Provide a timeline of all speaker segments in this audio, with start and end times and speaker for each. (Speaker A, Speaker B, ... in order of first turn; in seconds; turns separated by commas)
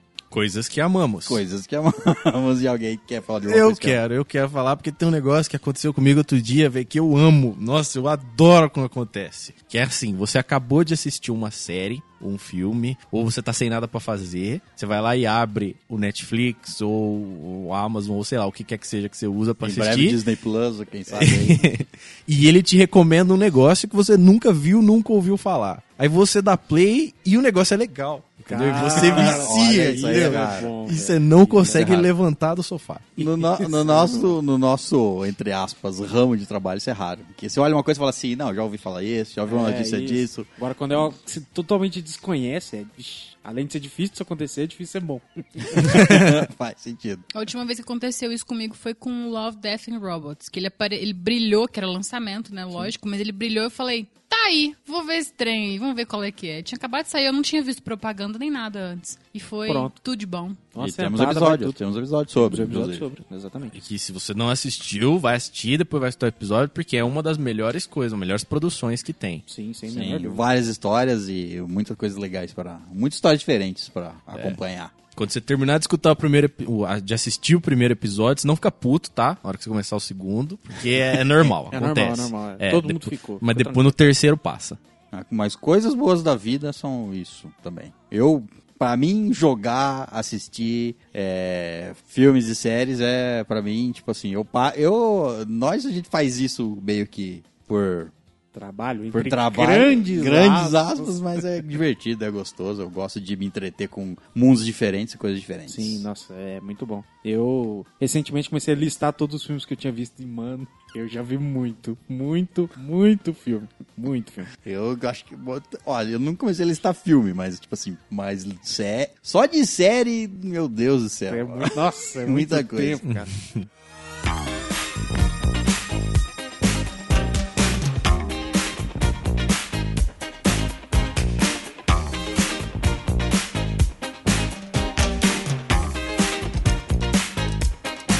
Speaker A: 0.3-1.4, Speaker B: 1.2-4.0, Speaker A: 3.4-20.2, Speaker B: 19.6-21.6, Speaker A: 21.1-33.2, Speaker C: 28.5-32.1, Speaker B: 28.9-30.7, Speaker B: 31.7-32.1, Speaker B: 33.2-40.5, Speaker C: 33.2-34.3, Speaker C: 39.5-46.0, Speaker B: 45.8-47.2, Speaker A: 45.9-46.4, Speaker D: 47.3-60.6, Speaker C: 59.6-59.9, Speaker C: 60.7-61.8, Speaker B: 60.8-63.0, Speaker C: 62.4-63.8, Speaker A: 63.7-69.4, Speaker C: 69.5-70.4, Speaker B: 69.9-74.9, Speaker A: 74.3-74.6, Speaker A: 75.2-84.8, Speaker C: 81.7-84.0, Speaker B: 85.1-98.1, Speaker C: 98.5-101.1, Speaker B: 99.1-106.0, Speaker C: 105.7-114.5, Speaker B: 114.6-123.0, Speaker C: 121.3-123.3, Speaker A: 123.0-123.6